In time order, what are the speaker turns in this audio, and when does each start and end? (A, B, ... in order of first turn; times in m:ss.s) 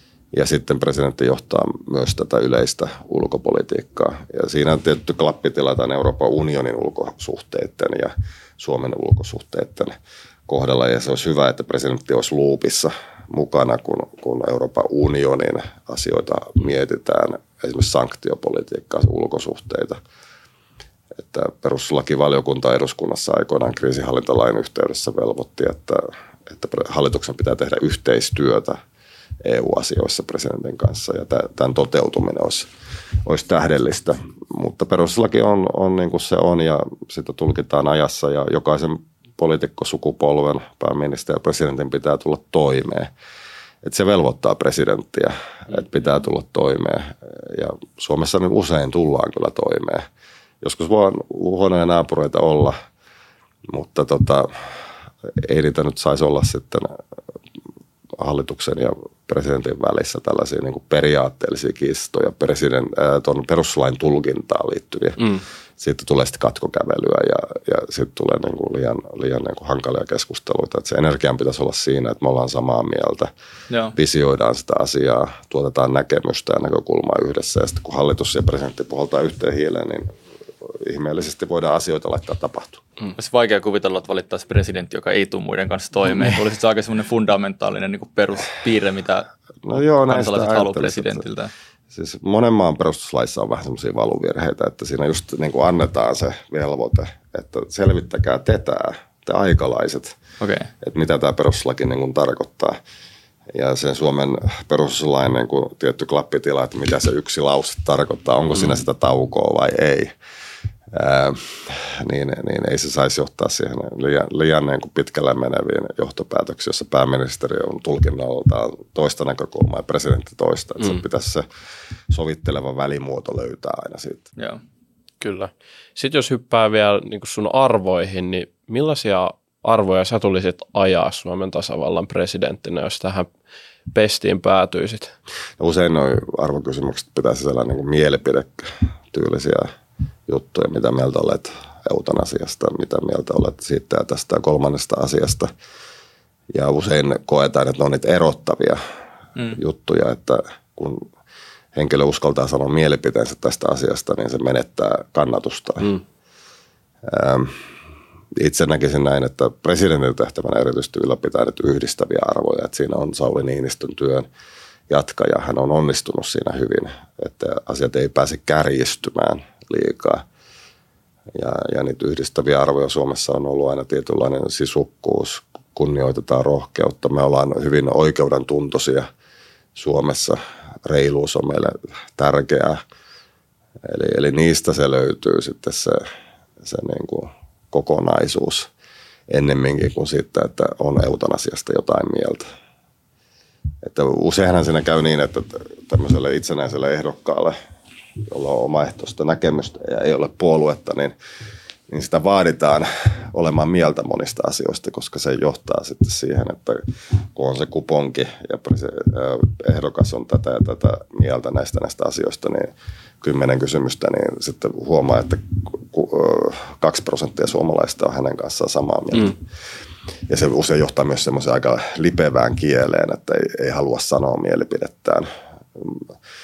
0:00.3-0:10.0 A
0:10.5-0:20.0 A
0:21.2-0:28.8 A
0:29.4-0:32.7 A
0:33.2-0:43.1 A
0:43.8-0:50.0 A
0:50.6-0:52.8 A
0:53.7-0:54.5 A
0:55.2-0:57.0 A
0:58.2-1:13.3 A
1:05.2-1:05.4 B
1:13.7-1:14.0 C
1:14.0-1:20.1 A
1:20.6-1:22.8 A
1:23.2-1:29.3 C
1:29.6-1:31.2 A
1:30.0-1:31.5 C
1:31.9-1:40.2 A
1:40.4-1:40.7 C
1:40.8-1:42.8 A
1:43.5-1:50.1 A
1:50.9-2:01.5 A
2:02.1-2:04.2 A
2:05.2-2:13.3 B
2:13.9-2:15.2 B
2:15.6-2:19.7 A
2:20.3-2:25.5 A
2:26.5-2:28.8 A
2:29.6-2:31.1 A
2:31.8-2:36.0 A
2:37.0-2:37.6 A
2:38.3-2:44.3 A
2:44.9-2:50.2 A
2:51.3-2:59.1 A
2:59.8-3:02.8 A
3:03.8-3:06.0 A
3:06.6-3:08.7 A
3:09.3-3:12.4 A
3:13.8-3:17.6 A
3:18.2-3:21.1 A
3:21.9-3:26.8 A
3:27.3-3:32.7 A
3:33.2-3:39.4 A
3:40.3-3:46.1 A